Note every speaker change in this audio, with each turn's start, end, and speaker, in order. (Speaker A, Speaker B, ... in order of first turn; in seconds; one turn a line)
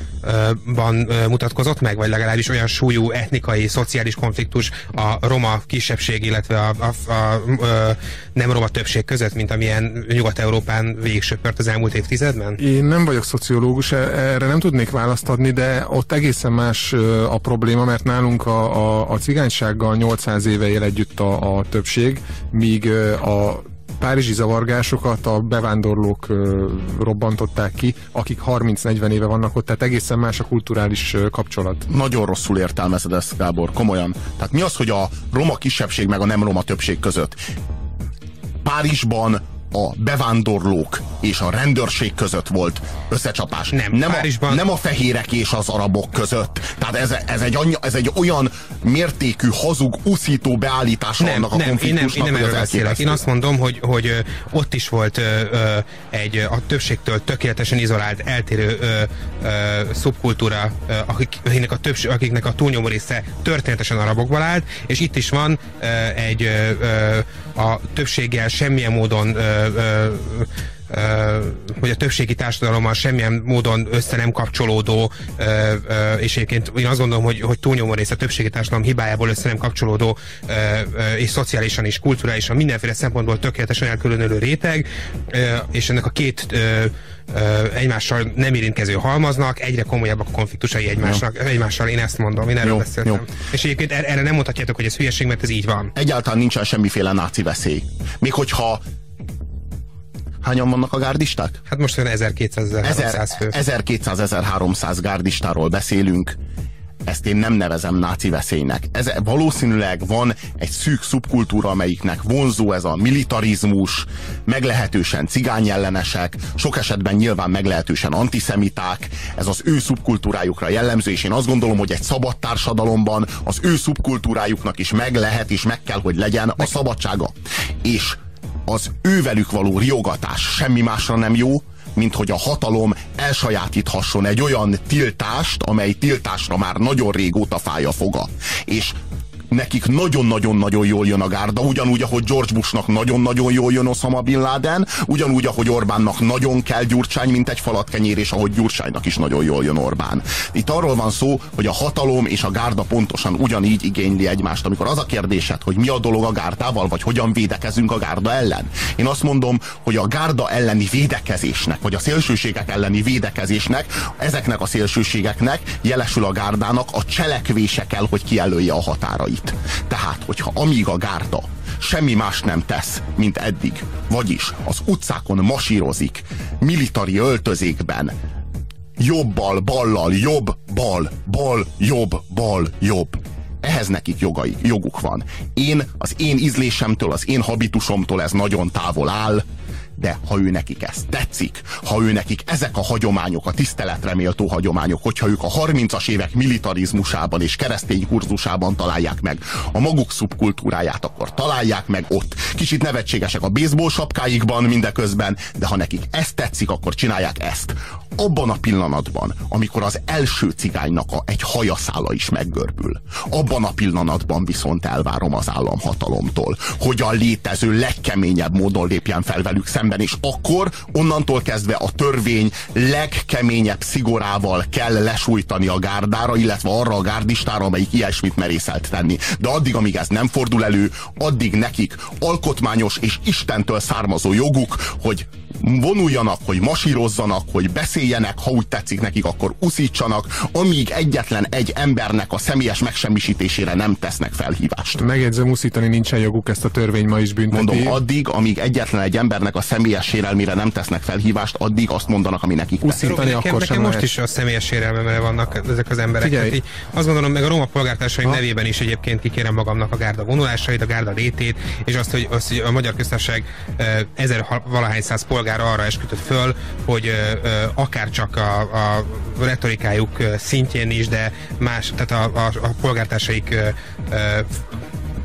Speaker A: 0.2-12.6
Speaker B: 12.6-31.9
Speaker C: 31.9-37.4
Speaker C: 38.6-53.2
Speaker A: 43.7-44.6
Speaker A: 51.2-95.9
Speaker C: 92.6-93.2
Speaker C: 96.0-98.8
Speaker C: 100.4-101.6
Speaker A: 101.7-103.5
Speaker C: 102.8-106.4
Speaker C: 107.1-139.0
Speaker C: 139.5-178.1
Speaker C: 179.0-189.4
Speaker C: 190.0-245.0
Speaker B: 245.0-248.0
Speaker C: 247.5-253.0
Speaker B: 252.8-254.1
Speaker A: 253.0-274.8
Speaker B: 256.2-256.6